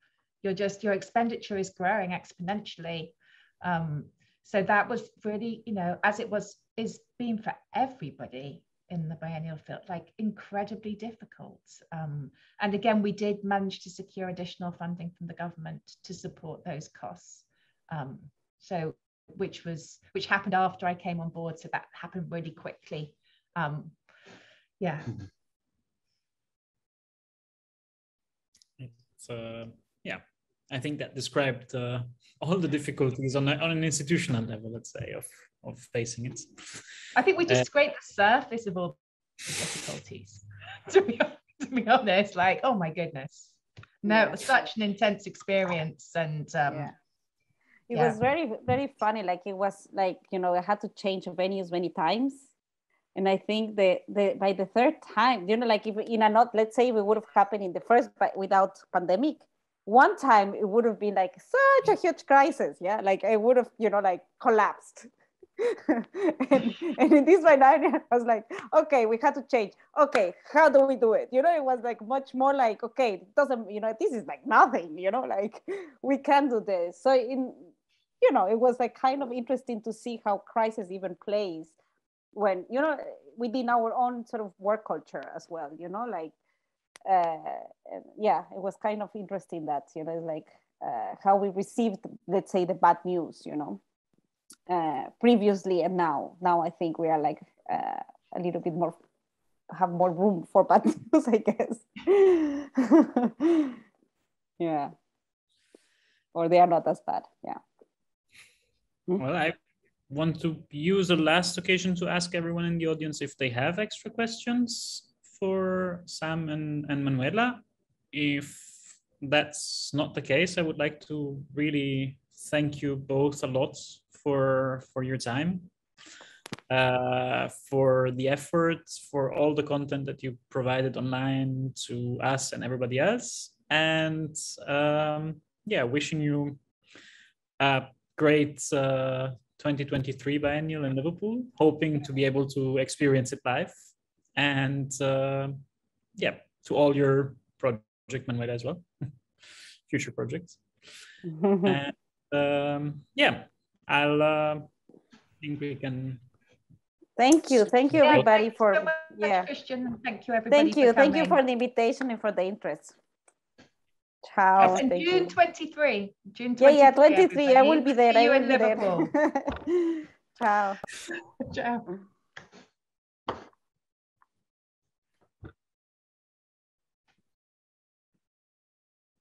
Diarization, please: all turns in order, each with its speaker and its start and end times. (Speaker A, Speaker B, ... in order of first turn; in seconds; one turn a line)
Speaker A: 0.4-23.9
Speaker A: 24.8-25.2
Speaker B: 28.8-36.8
Speaker A: 37.1-46.9
Speaker C: 44.1-44.4
Speaker C: 46.7-46.9
Speaker C: 47.9-52.5
Speaker A: 47.9-48.2
Speaker C: 53.1-65.1
Speaker C: 65.6-77.7
Speaker C: 78.2-81.8
Speaker C: 82.3-86.3
Speaker C: 87.1-93.8
Speaker C: 94.7-99.0
Speaker C: 99.7-103.8
Speaker C: 104.6-104.9
Speaker C: 106.3-107.6
Speaker B: 109.2-109.6
Speaker B: 110.1-125.7
Speaker B: 126.7-136.6
Speaker B: 137.6-143.7
Speaker B: 144.4-145.6
Speaker B: 146.2-148.8
Speaker B: 149.9-150.6
Speaker C: 151.2-151.8
Speaker B: 151.7-154.7
Speaker B: 155.4-156.2
Speaker C: 157.2-159.5
Speaker A: 158.0-161.4
Speaker C: 160.5-162.9
Speaker C: 164.2-165.3
Speaker A: 164.6-169.1
Speaker C: 166.6-170.8
Speaker A: 171.4-171.9